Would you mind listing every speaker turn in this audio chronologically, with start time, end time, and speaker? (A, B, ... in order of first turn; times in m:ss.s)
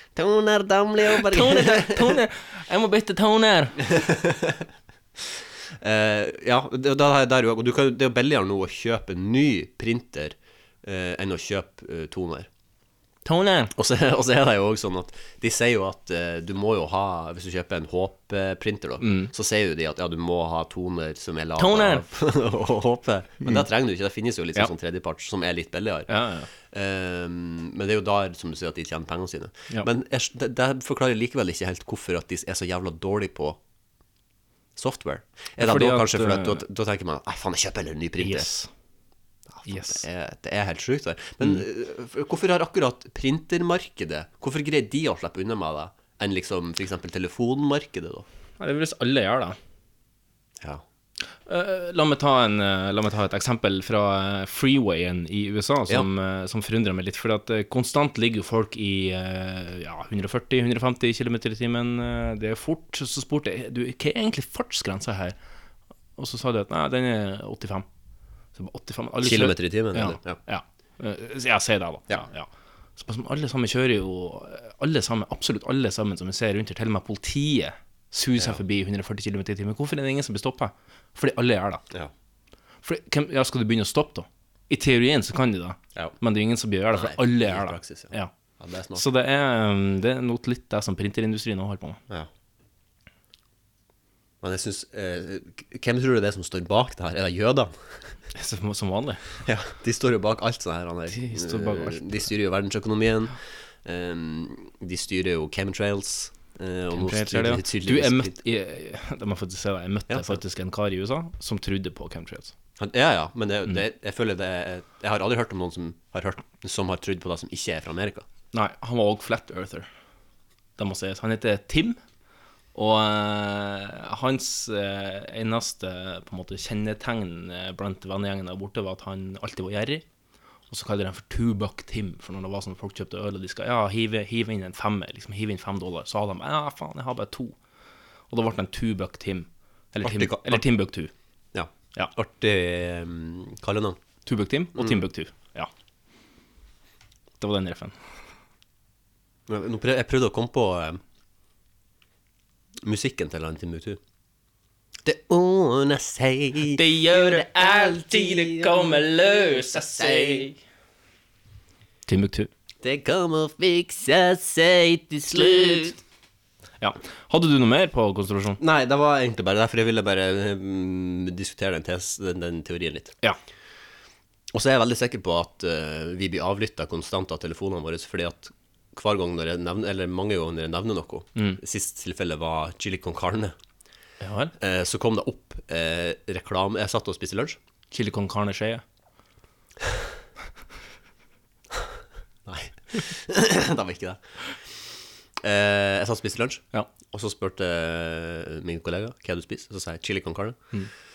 0:00.2-0:02.2 A
0:01.2-0:03.8 B
0:03.8-0:04.7 A
0:05.2-0:12.5 A
0:13.3-0:13.7 B
0:13.7-0:26.1 A
0:19.0-0:19.3 B
0:21.6-0:22.1 B
0:26.1-0:26.5 B
0:26.7-0:33.6 A
0:34.8-0:38.5 A
0:35.6-0:36.6 B
0:38.2-0:38.7 B
0:39.5-0:48.3 A
0:39.7-0:40.0 B
0:48.6-0:49.6 B
0:51.5-1:05.4 B
1:06.2-1:07.9 B
1:08.6-1:21.8 B
1:09.2-1:10.4 A
1:22.8-1:28.3 B
1:26.9-1:29.1 A
1:29.0-1:32.0 B
1:34.4-1:38.2 A
1:38.4-1:39.3 B
1:39.4-1:48.4 A
1:41.1-1:42.3 B
1:47.0-1:52.5 B
1:50.1-1:50.4 A
1:52.8-1:58.3 A
1:58.5-1:59.9 B
2:00.8-2:02.0 B
2:02.7-2:10.0 B
2:10.7-2:17.6 B
2:18.3-2:21.1 B
2:20.0-2:20.7 A
2:21.5-2:24.0 A
2:24.3-2:25.7 B
2:24.7-2:25.0 A
2:27.4-2:28.0 B
2:29.5-2:31.0 A
2:32.8-2:34.0 A
2:35.0-2:40.5 A
2:36.7-2:40.6 B
2:42.1-2:42.5 B
2:42.8-2:46.0 A
2:45.3-2:46.0 B
2:46.8-2:48.6 B
2:48.6-2:53.2 A
2:54.5-3:03.6 A
3:04.2-3:04.5 B
3:04.6-3:07.6 A
3:07.9-3:08.8 B
3:12.4-3:14.8 A
3:15.4-3:20.6 A